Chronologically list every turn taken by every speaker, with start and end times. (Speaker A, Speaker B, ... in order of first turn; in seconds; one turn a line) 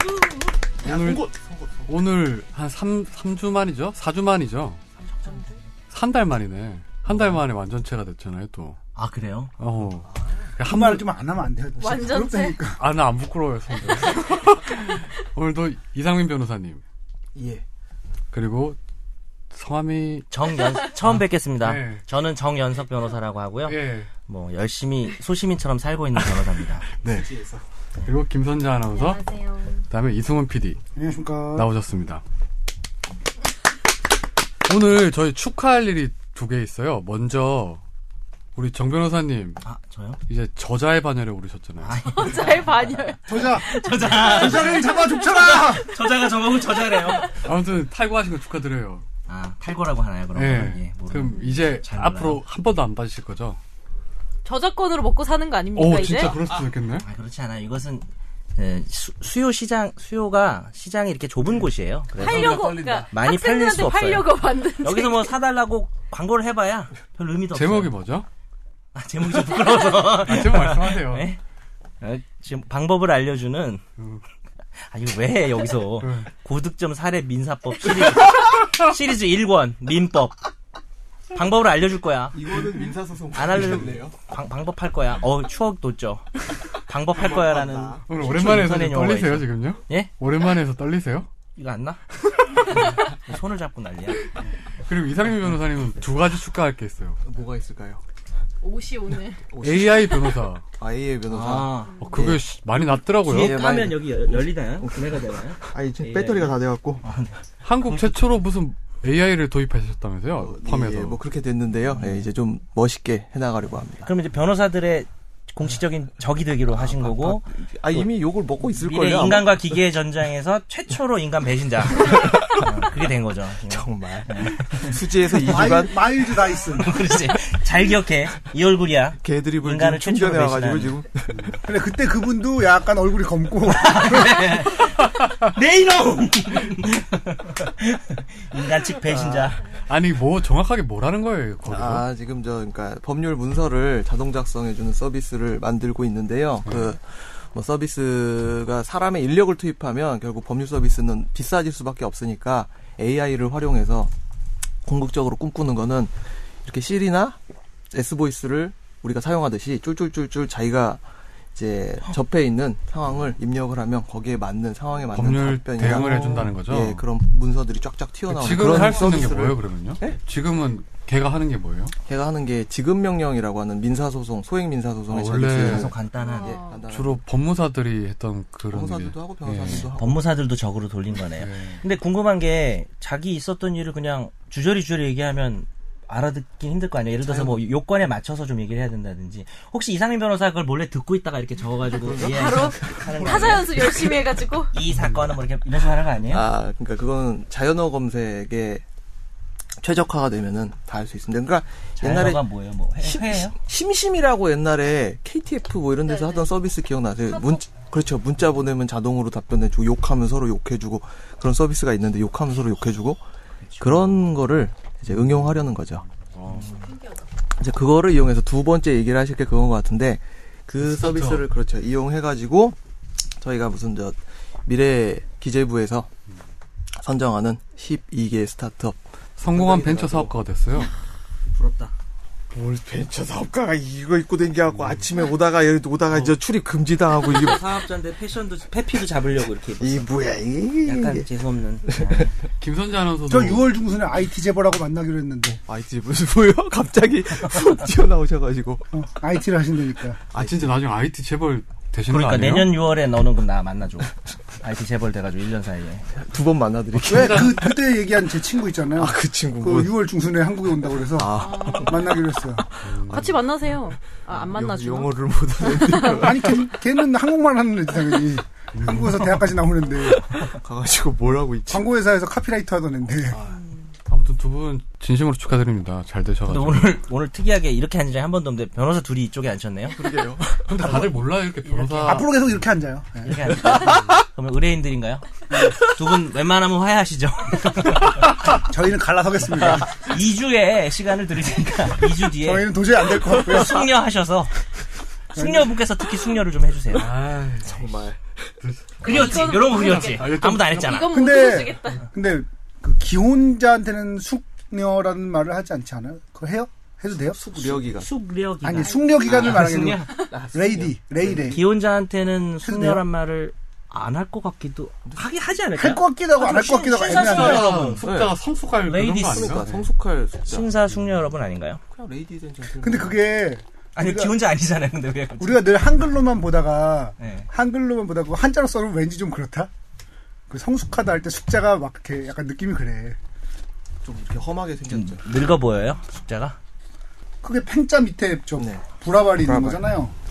Speaker A: 0.8-1.9
Speaker B: 0.8-1.3
Speaker B: 1.9-4.8
Speaker B: 5.9-8.8
Speaker A: 7.1-7.4
Speaker C: 9.0-9.5
Speaker B: 9.6-11.1
Speaker A: 10.1-10.5
Speaker D: 10.6-12.8
Speaker E: 11.8-12.6
Speaker B: 12.8-16.8
Speaker A: 17.4-17.6
Speaker B: 18.3-18.8
Speaker B: 19.5-20.3
Speaker C: 20.3-26.9
Speaker B: 21.0-22.0
Speaker B: 23.7-24.1
Speaker B: 27.0-27.3
Speaker A: 27.1-27.6
Speaker B: 28.0-29.2
Speaker E: 28.9-29.8
Speaker B: 29.9-30.8
Speaker D: 31.0-31.7
Speaker B: 31.6-32.2
Speaker B: 34.6-37.8
Speaker B: 38.6-39.6
Speaker C: 39.6-40.2
Speaker B: 40.3-42.0
Speaker C: 41.8-47.3
Speaker E: 42.0-46.0
Speaker D: 43.3-45.9
Speaker E: 46.7-47.3
Speaker B: 47.4-49.0
Speaker C: 49.3-52.4
Speaker B: 50.4-53.6
Speaker E: 54.5-56.4
Speaker B: 55.8-57.0
Speaker C: 57.0-68.0
Speaker B: 62.2-63.1
Speaker E: 62.2-65.3
Speaker B: 67.5-68.3
Speaker C: 68.9-71.4
Speaker B: 70.1-71.3
Speaker C: 72.0-73.8
Speaker C: 74.9-80.4
Speaker B: 76.0-76.3
Speaker C: 81.3-82.6
Speaker A: 82.3-84.2
Speaker C: 83.3-90.1
Speaker A: 87.1-88.1
Speaker B: 88.1-91.3
Speaker C: 91.5-92.0
Speaker C: 92.6-94.3
Speaker B: 94.8-97.2
Speaker A: 97.2-98.0
Speaker E: 98.6-99.5
Speaker A: 99.5-102.5
Speaker B: 99.6-100.6
Speaker C: 101.3-102.0
Speaker E: 102.0-102.3
Speaker B: 102.0-103.6
Speaker C: 103.2-108.3
Speaker A: 103.3-107.0
Speaker B: 107.6-111.2
Speaker A: 110.4-114.1
Speaker C: 114.0-118.1
Speaker A: 116.7-119.8
Speaker C: 118.8-125.8
Speaker A: 122.0-122.8
Speaker A: 123.7-126.0
Speaker D: 125.4-127.0
Speaker C: 126.5-131.0
Speaker A: 129.2-131.6
Speaker D: 131.6-134.6
Speaker C: 133.7-139.6
Speaker A: 139.1-139.6
Speaker B: 139.9-142.1
Speaker A: 141.7-154.1
Speaker B: 146.6-146.9
Speaker A: 154.8-157.4
Speaker A: 157.9-161.0
Speaker A: 161.6-170.2
Speaker B: 165.1-167.1
Speaker B: 168.3-171.9
Speaker A: 172.1-177.2
Speaker B: 175.1-175.9
Speaker C: 175.6-176.6
Speaker E: 176.2-176.8
Speaker B: 176.9-179.9
Speaker A: 178.7-180.3
Speaker C: 179.9-194.1
Speaker B: 181.3-181.8
Speaker A: 187.3-187.6
Speaker A: 191.9-193.6
Speaker E: 192.2-194.7
Speaker C: 194.7-196.5
Speaker A: 196.3-198.8
Speaker A: 199.8-202.5
Speaker C: 202.0-203.6
Speaker A: 203.0-213.2
Speaker E: 206.1-206.5
Speaker E: 207.3-207.6
Speaker C: 213.7-214.0
Speaker A: 213.8-216.1
Speaker B: 215.1-216.8
Speaker C: 216.5-216.9
Speaker E: 216.7-217.2
Speaker A: 217.6-222.8
Speaker B: 220.8-221.4
Speaker A: 223.4-226.1
Speaker A: 226.9-230.3
Speaker B: 229.4-230.9
Speaker C: 231.5-231.9
Speaker A: 232.5-237.7
Speaker B: 234.7-235.1
Speaker B: 236.1-236.4
Speaker C: 237.2-240.1
Speaker A: 239.8-241.3
Speaker C: 240.8-242.3
Speaker A: 241.9-242.3
Speaker B: 242.6-243.7
Speaker D: 243.3-245.6
Speaker A: 245.7-248.9
Speaker D: 248.9-250.2
Speaker A: 250.3-250.7
Speaker B: 250.3-252.7
Speaker C: 252.1-256.1
Speaker A: 256.1-257.8
Speaker B: 257.0-257.6
Speaker D: 257.1-262.6
Speaker A: 258.9-260.0
Speaker A: 261.1-262.1
Speaker E: 261.4-262.1
Speaker B: 262.8-263.3
Speaker A: 262.9-263.3
Speaker E: 263.1-266.3
Speaker A: 264.1-266.6
Speaker D: 266.1-270.2
Speaker B: 268.8-269.2
Speaker A: 269.9-271.9
Speaker D: 271.7-273.4
Speaker A: 273.3-273.6
Speaker E: 273.5-273.8
Speaker B: 274.1-277.0
Speaker C: 276.5-280.0
Speaker A: 279.9-281.1
Speaker B: 280.6-282.3
Speaker C: 281.6-282.2
Speaker D: 282.0-283.7
Speaker C: 283.2-288.3
Speaker A: 283.6-284.2
Speaker D: 288.4-289.9
Speaker C: 289.8-294.5
Speaker D: 292.4-293.9
Speaker C: 295.4-297.1
Speaker D: 295.4-295.7
Speaker B: 296.9-297.8
Speaker A: 297.6-298.5
Speaker B: 298.6-301.1
Speaker C: 299.0-301.1
Speaker E: 299.1-302.1
Speaker D: 301.1-307.8
Speaker A: 307.3-308.1
Speaker C: 307.9-310.5
Speaker D: 308.6-311.6
Speaker A: 309.4-309.8
Speaker A: 310.4-311.6
Speaker C: 311.3-318.1
Speaker D: 312.6-313.1
Speaker D: 315.8-317.8
Speaker B: 317.1-319.9
Speaker A: 318.0-318.4
Speaker C: 318.8-319.7
Speaker A: 319.2-320.7
Speaker C: 320.5-321.8
Speaker A: 321.9-323.2
Speaker D: 322.8-324.4
Speaker C: 323.9-325.8
Speaker D: 325.4-329.7
Speaker C: 327.2-327.5
Speaker D: 330.5-333.2
Speaker A: 334.0-335.2
Speaker C: 334.9-336.6
Speaker D: 337.4-340.1
Speaker A: 338.6-339.8